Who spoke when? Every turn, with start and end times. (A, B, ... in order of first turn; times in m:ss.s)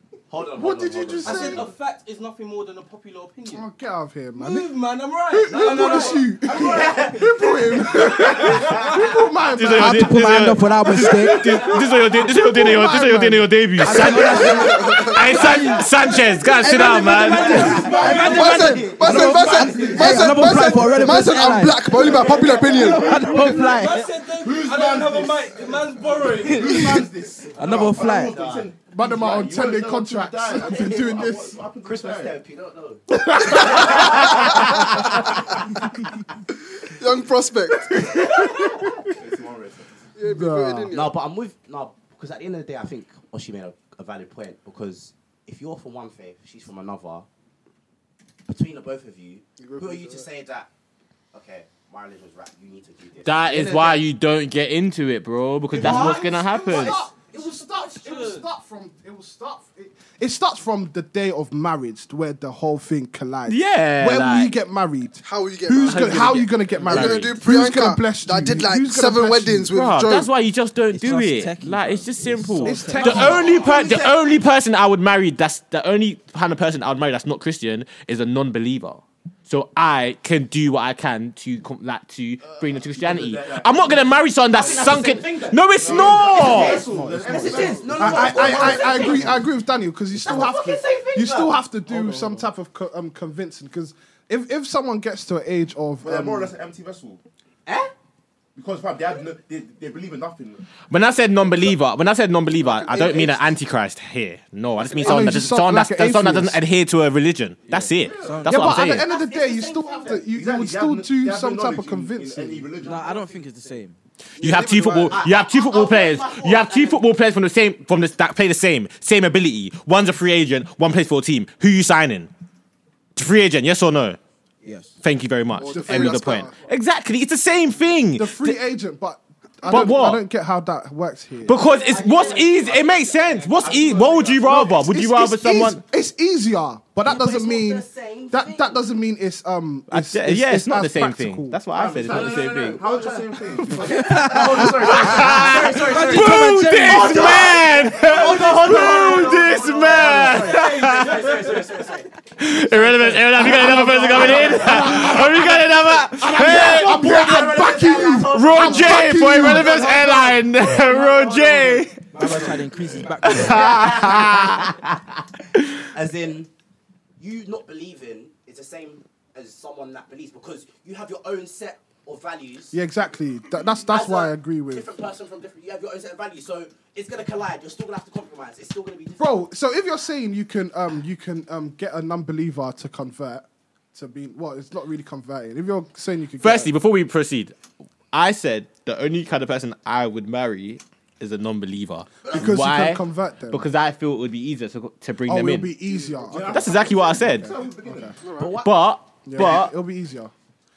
0:00.3-0:01.7 A
0:00.5-0:01.7 B
0:01.2-0:03.7 C
0:03.4-0:14.9 B
0:04.4-0:09.2 C
0:05.8-0:08.9 A
0:09.5-0:17.8 D
0:09.7-0:11.6 E
0:13.8-0:14.7 E
0:13.9-0:15.4 F
0:13.9-0:15.8 A
0:16.0-0:18.9 C
0:16.6-0:23.2 F
0:17.2-0:21.2 A
0:17.3-0:20.8 G
0:17.3-0:24.1 E
0:22.0-0:32.4 G
0:22.9-0:27.1 C
0:27.6-0:28.4 E
0:27.6-0:28.7 A
0:28.9-0:31.6 B
0:30.6-0:31.1 A
0:31.8-0:35.5 A
0:33.4-0:34.2 B
0:36.8-0:38.0 F
0:38.4-0:38.9 A
0:38.4-0:39.1 B
0:39.1-0:40.1 G
0:40.2-0:41.2 F
0:40.3-0:40.9 B
0:40.9-0:47.3 A
0:48.5-0:50.7 A
0:49.6-0:50.3 F
0:51.3-0:54.0 A
0:53.2-0:57.1 D
0:55.7-0:58.5 C
0:55.8-1:09.7 B
1:03.5-1:04.5 D
1:05.2-1:10.3 F
1:05.8-1:07.4 D
1:09.7-1:26.8 D
1:10.9-1:13.5 E
1:12.6-1:13.6 B
1:12.9-1:14.2 A
1:22.4-1:25.1 G
1:24.5-1:29.5 A
1:25.8-1:29.4 G
1:26.6-1:28.3 E
1:27.9-1:36.5 B
1:30.1-1:31.6 A
1:31.9-1:32.5 E
1:36.0-1:37.2 G
1:37.7-1:37.9 A
1:38.6-1:40.7 G
1:40.9-1:49.1 D
1:41.4-1:41.7 G
1:42.6-1:43.6 F
1:44.8-1:45.4 A
1:45.0-1:46.6 B
1:47.7-1:48.9 E
1:48.0-1:48.5 G
1:48.4-1:52.7 B
1:49.0-1:50.3 A
1:50.3-1:53.1 G
1:52.8-1:54.0 E
1:54.4-2:02.3 D
1:54.4-1:55.2 F
1:55.1-1:57.0 A
2:03.2-2:04.2 D
2:04.6-2:05.0 E
2:05.0-2:08.6 D
2:05.6-2:06.6 F
2:05.7-2:06.3 B
2:08.2-2:11.6 B
2:09.6-2:10.2 D
2:11.5-2:15.8 D
2:11.5-2:14.4 A
2:13.6-2:14.7 G
2:14.5-2:21.7 B
2:17.0-2:18.9 A
2:19.9-2:22.8 D
2:21.7-2:25.2 G
2:22.0-2:32.1 A
2:24.0-2:24.7 E
2:24.8-2:31.5 D
2:25.2-2:27.6 E
2:28.3-2:31.5 C
2:32.4-2:37.3 D
2:33.0-2:35.6 A
2:33.4-2:35.6 B
2:36.2-2:40.1 B
2:36.2-2:42.6 A
2:38.3-2:42.0 D
2:42.1-2:44.2 E
2:43.2-2:44.8 A
2:43.2-2:45.0 D
2:45.9-2:46.5 A
2:47.2-2:52.8 A
2:52.7-2:54.9 B
2:53.8-2:59.4 A
2:59.2-3:06.7 B
3:06.4-3:07.6 D
3:08.1-3:15.8 D
3:12.3-3:13.7 B
3:15.2-3:18.1 B
3:16.2-3:18.2 G
3:16.4-3:17.5 D
3:18.2-3:18.6 F
3:18.4-3:18.7 A
3:18.6-3:19.7 D
3:19.2-3:20.3 B